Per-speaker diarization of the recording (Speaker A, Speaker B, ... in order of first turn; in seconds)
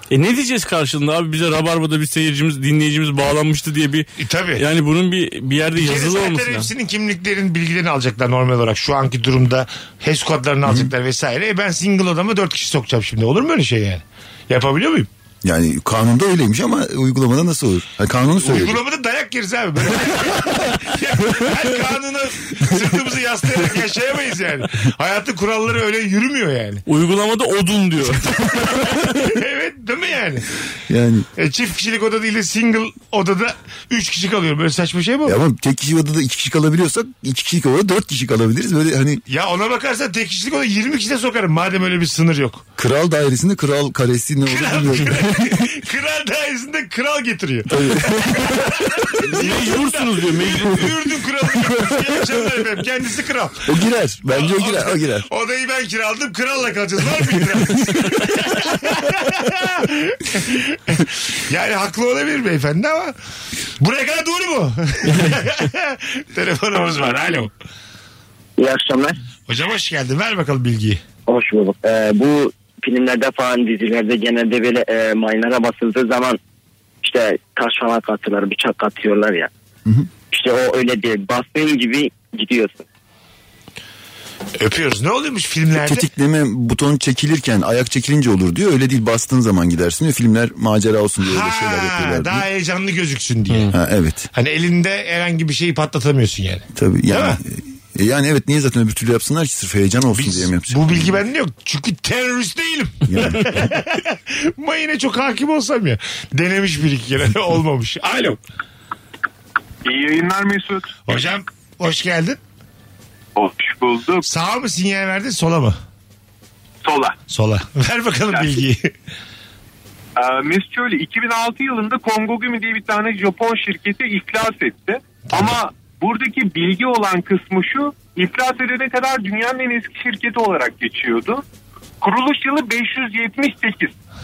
Speaker A: 0.1-6.7, 26.9-29.1, 49.3-51.0
Speaker B: 4.2-4.6, 5.8-15.1, 18.3-26.8, 28.0-30.4, 31.4-35.4, 39.3-42.6, 44.5-53.7, 54.3-63.1, 63.8-67.5, 69.5-71.0, 84.6-86.0, 91.2-93.7, 94.3-97.4, 100.1-108.4, 111.0-112.4, 114.2-115.8, 117.3-118.9, 125.3-125.6
Speaker C: 10.6-10.9, 15.4-18.8, 30.9-31.3, 35.2-39.2, 42.8-45.7, 47.7-49.4, 53.6-55.3, 85.7-92.5, 93.7-94.3, 96.7-101.2, 103.1-103.7
Speaker D: 68.6-69.2, 71.3-76.4, 77.0-79.5, 80.3-82.8
Speaker E: 109.8-111.2, 113.4-114.2, 116.9-117.1, 120.2-131.4, 132.0-133.9